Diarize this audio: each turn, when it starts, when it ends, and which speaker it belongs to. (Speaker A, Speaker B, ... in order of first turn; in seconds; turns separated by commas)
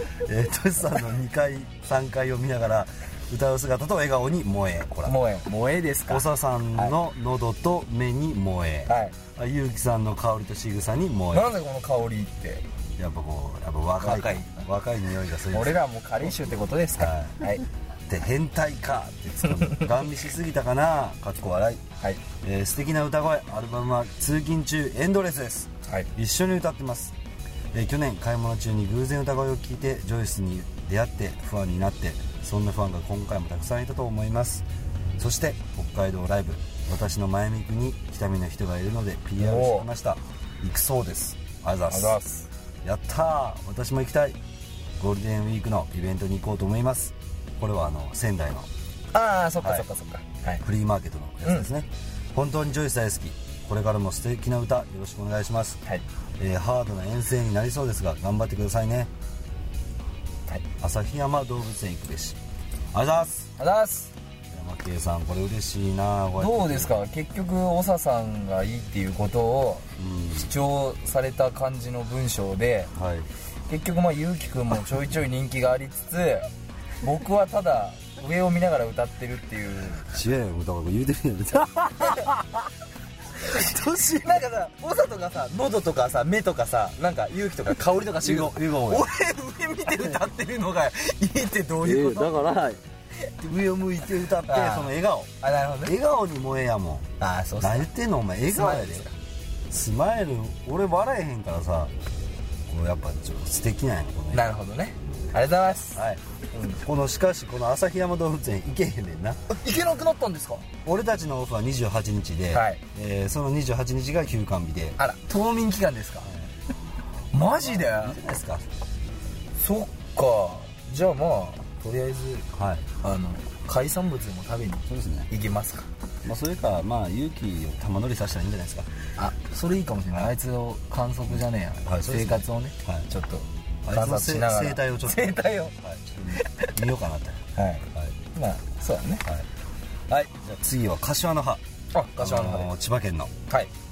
Speaker A: 0.2-5.2, Speaker B: 5.1-6.9, Speaker A: 6.1-11.5, Speaker B: 8.8-9.2, Speaker B: 11.3-12.6, Speaker A: 13.0-15.8, Speaker B: 14.0-14.6, Speaker B: 15.5-17.6, Speaker A: 17.0-17.5, Speaker A: 18.1-21.8, Speaker A: 22.4-27.1, Speaker A: 27.7-34.6, Speaker A: 35.2-42.2, Speaker B: 39.4-39.9, Speaker B: 41.9-42.5, Speaker A: 42.8-44.4, Speaker A: 45.0-48.7, Speaker B: 49.1-50.6, Speaker A: 49.6-49.9, Speaker A: 50.6-55.8, Speaker A: 56.4-59.1, Speaker A: 60.8-62.4, Speaker A: 62.9-63.5, Speaker B: 63.6-64.1, Speaker A: 64.5-67.0, Speaker B: 66.4-72.9, Speaker A: 70.0-70.5, Speaker A: 72.9-73.3, Speaker B: 73.7-76.5, Speaker B: 77.0-80.1, Speaker A: 80.0-82.5, Speaker A: 83.4-84.5, Speaker B: 84.2-92.4, Speaker A: 88.2-89.1, Speaker A: 91.8-92.8, Speaker A: 93.4-95.3, Speaker B: 94.4-95.9, Speaker A: 95.8-97.0, Speaker B: 97.2-97.9, Speaker A: 97.6-99.1, Speaker B: 98.5-99.1, Speaker A: 99.7-101.9, Speaker A: 102.7-104.5, Speaker B: 104.3-106.8, Speaker A: 105.9-106.2, Speaker A: 106.7-109.4, Speaker B: 109.5-110.7, Speaker A: 110.8-115.0, Speaker B: 112.5-112.8, Speaker B: 115.0-116.3, Speaker B: 117.3-118.2, Speaker A: 117.4-118.6, Speaker B: 119.5-122.5, Speaker A: 122.5-122.9, Speaker B: 123.0-125.9, Speaker A: 124.9-125.3, Speaker A: 126.2-128.9, Speaker B: 129.2-135.7, Speaker A: 131.3-133.1, Speaker A: 133.8-137.4, Speaker B: 136.3-136.8, Speaker B: 137.5-139.2, Speaker A: 140.1-141.6, Speaker B: 141.9-142.7, Speaker A: 142.2-143.3